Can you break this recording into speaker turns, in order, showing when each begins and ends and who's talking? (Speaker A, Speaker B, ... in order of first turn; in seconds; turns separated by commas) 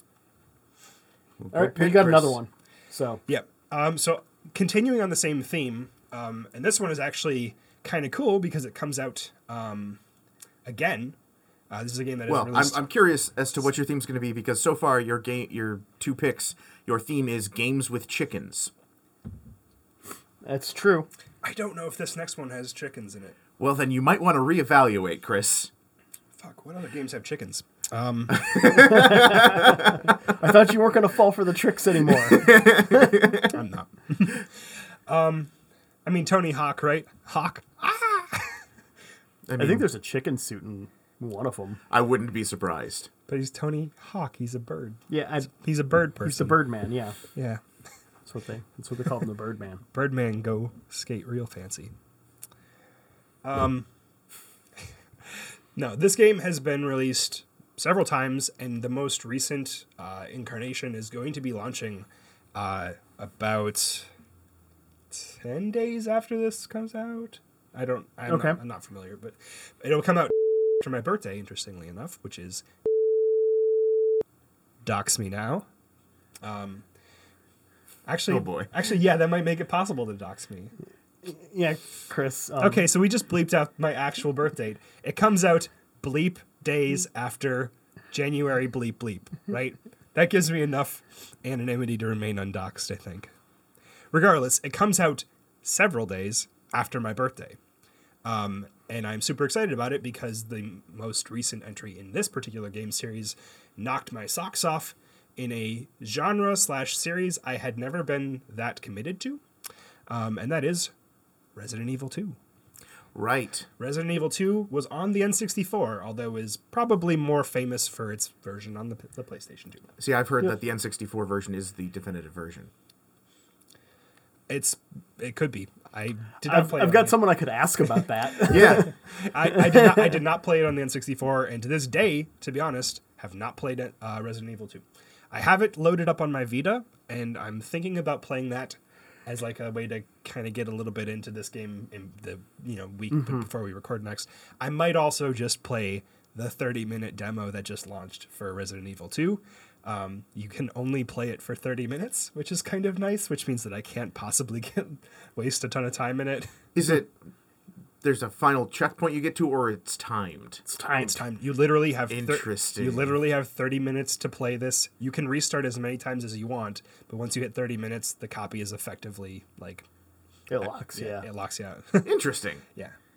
Speaker A: 1.4-2.4, Speaker B: 1.5-3.2, Speaker C: 3.3-10.0, Speaker C: 10.6-11.2, Speaker C: 11.7-12.8, Speaker A: 12.3-18.7, Speaker B: 20.4-21.1, Speaker C: 21.4-23.4, Speaker A: 23.6-25.7, Speaker C: 26.4-28.5, Speaker A: 28.3-29.9, Speaker B: 28.7-32.8, Speaker A: 32.2-33.5, Speaker C: 33.4-34.5, Speaker C: 35.1-35.5, Speaker C: 36.0-38.5, Speaker A: 39.5-39.9, Speaker B: 39.6-41.8, Speaker A: 41.9-43.1, Speaker C: 43.3-46.6, Speaker B: 45.1-45.5, Speaker B: 46.2-47.2, Speaker C: 47.3-47.6, Speaker B: 48.2-49.8, Speaker C: 49.9-51.9, Speaker C: 53.4-53.9, Speaker C: 55.8-64.1, Speaker C: 65.1-72.6, Speaker B: 68.3-68.6, Speaker C: 74.8-75.6, Speaker C: 76.4-76.8, Speaker C: 78.0-80.7, Speaker A: 78.3-78.7, Speaker B: 81.2-82.9, Speaker C: 82.6-93.3, Speaker C: 94.1-97.6, Speaker C: 98.2-109.4, Speaker C: 110.1-110.9, Speaker C: 111.5-112.3, Speaker A: 113.1-113.7, Speaker C: 113.8-119.9, Speaker A: 120.0-122.7, Speaker C: 124.5-127.2, Speaker B: 126.4-128.9, Speaker A: 128.5-128.9, Speaker C: 128.5-156.5, Speaker B: 129.4-130.0, Speaker B: 143.1-143.4, Speaker A: 156.7-157.1, Speaker A: 158.0-160.6, Speaker B: 160.7-161.2, Speaker C: 161.0-169.8, Speaker A: 162.1-163.2, Speaker B: 170.5-171.2, Speaker C: 170.6-172.2, Speaker A: 172.0-172.6